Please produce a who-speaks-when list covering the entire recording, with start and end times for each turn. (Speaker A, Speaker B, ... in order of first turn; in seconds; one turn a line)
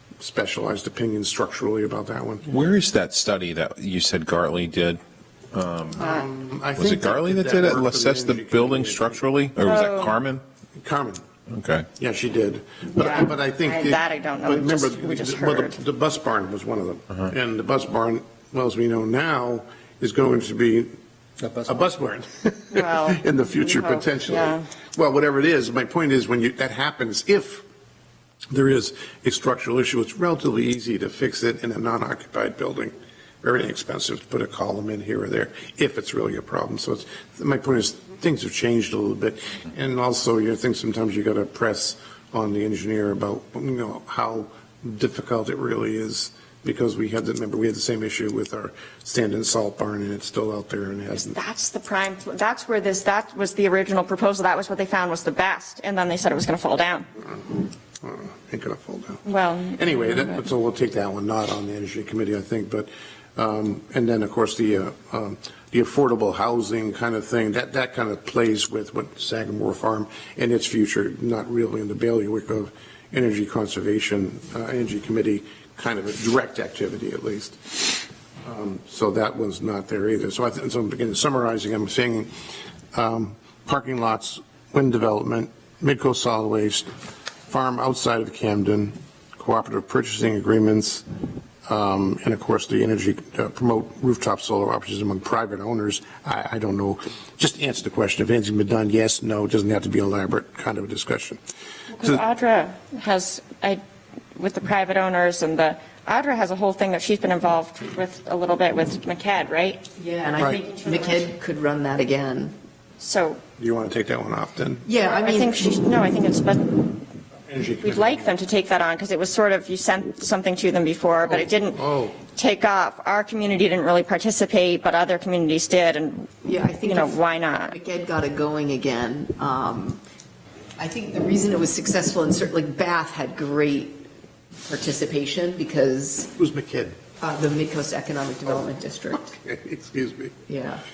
Speaker A: 0.2-2.5
Speaker B: 2.5-5.0
Speaker B: 5.5-5.9
Speaker A: 6.0-9.2
Speaker B: 6.8-10.4
Speaker C: 9.6-10.1
Speaker A: 10.8-11.2
Speaker B: 11.5-11.9
Speaker A: 11.9-20.9
Speaker C: 13.0-15.8
Speaker A: 21.4-27.6
Speaker C: 22.7-24.6
Speaker A: 28.5-51.4
Speaker C: 51.2-57.1
Speaker A: 58.0-82.3
Speaker C: 59.2-60.3
Speaker A: 82.9-86.9
Speaker A: 87.5-91.0
Speaker A: 91.7-101.4
Speaker C: 101.9-103.8
Speaker C: 104.3-109.8
Speaker D: 110.0-112.5
Speaker C: 110.4-111.3
Speaker C: 113.0-113.4
Speaker A: 113.6-114.9
Speaker D: 114.8-115.7
Speaker C: 115.0-117.0
Speaker A: 117.5-118.3
Speaker C: 117.8-127.8
Speaker A: 121.2-122.2
Speaker D: 126.4-130.0
Speaker D: 130.8-134.0
Speaker D: 134.6-136.3
Speaker A: 136.3-137.0
Speaker D: 137.2-139.3
Speaker A: 139.3-140.4
Speaker D: 140.5-140.8